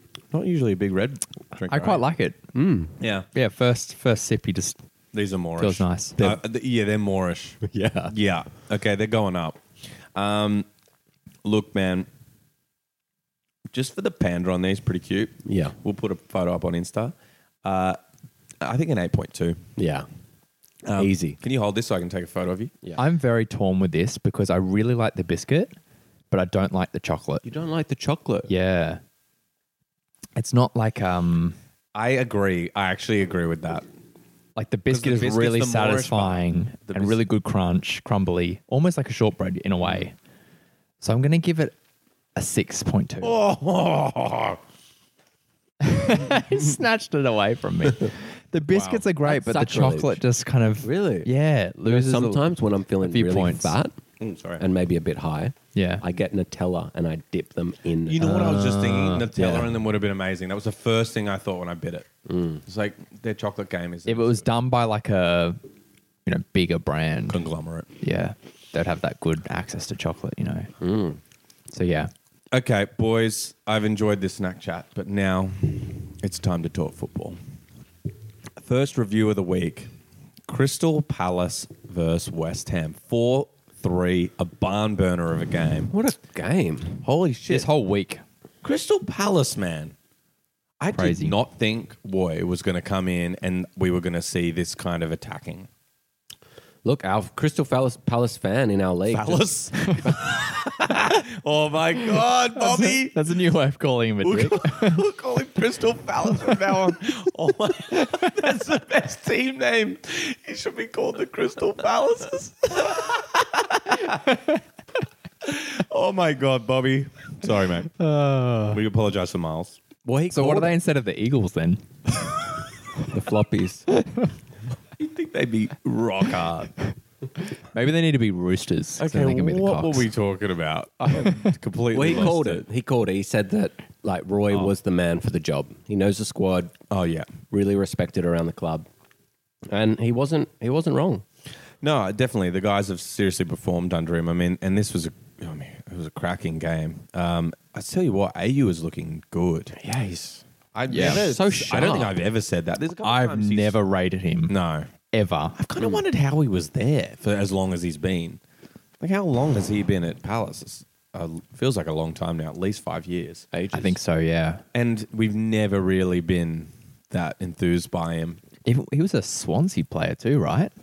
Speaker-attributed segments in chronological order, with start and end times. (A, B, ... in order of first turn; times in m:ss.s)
0:00.3-0:02.0 A
0:01.6-0:02.4 B
0:02.5-0:03.0 C
0:03.0-0:03.3 A
0:03.3-0:04.8 B
0:05.1-0:09.6 A
0:05.6-0:06.2 B
0:07.6-0:08.1 C
0:10.1-0:10.7 A
0:11.4-0:12.1 A
0:13.7-0:18.0 A
0:15.5-0:15.8 C
0:18.6-0:19.6 A
0:19.8-0:20.1 C
0:20.8-0:22.7 A
0:21.0-0:21.4 C
0:23.0-0:25.7 B
0:26.3-0:27.4 B
0:27.4-0:28.5 C
0:28.5-0:29.0 B
0:30.4-0:31.6 B
0:32.0-0:33.9 A
0:34.6-0:40.1 B
0:34.9-0:37.2 A
0:41.0-0:41.7 B
0:42.4-0:43.4 B
0:43.2-0:44.6 A
0:45.8-0:52.4 B
0:48.7-0:49.0 A
0:49.2-0:50.2 C
0:50.8-0:51.3 C
0:51.9-0:54.0 C
0:53.0-0:53.8 B
0:54.2-0:54.6 A
0:54.6-0:58.5 C
0:55.8-0:56.0 B
0:58.0-1:02.1 A
0:58.2-0:59.7 B
1:02.3-1:02.6 C
1:02.6-1:04.5 A
1:04.1-1:05.6 B
1:06.2-1:07.4 B
1:07.3-1:07.9 A
1:08.0-1:10.7 B
1:10.8-1:11.2 C
1:11.7-1:12.1 B
1:12.5-1:17.4 A
1:18.6-1:19.9 A
1:20.5-1:25.9 A
1:25.9-1:27.0 C
1:27.0-1:27.7 A
1:27.5-1:28.2 B
1:28.6-1:30.0 A
1:30.8-1:35.7 A
1:30.9-1:31.4 B
1:36.8-1:39.5 C
1:39.1-1:43.4 A
1:39.8-1:40.3 B
1:42.6-1:45.0 B
1:44.2-1:54.4 A
1:48.0-1:48.3 B
1:55.4-1:57.9 A
1:58.0-1:58.8 B
1:58.7-1:59.8 A
2:00.0-2:00.7 C
2:00.3-2:01.8 B
2:03.0-2:03.9 C
2:03.9-2:04.3 B
2:05.0-2:06.7 A
2:07.7-2:10.1 B
2:09.0-2:12.6 A
2:11.9-2:16.8 C
2:16.9-2:17.4 A
2:17.5-2:18.9 C
2:19.7-2:21.2 C
2:21.8-2:29.8 A
2:29.8-2:32.2 C
2:30.7-2:33.8 A
2:30.9-2:31.2 B
2:33.0-2:34.6 B
2:34.5-2:34.9 A
2:35.1-2:35.6 B
2:35.6-2:38.4 A
2:35.8-2:36.0 C
2:39.0-2:43.5 A
2:43.5-2:44.0 C
2:43.7-2:44.6 B
2:44.7-2:48.4 A
2:48.6-2:50.7 B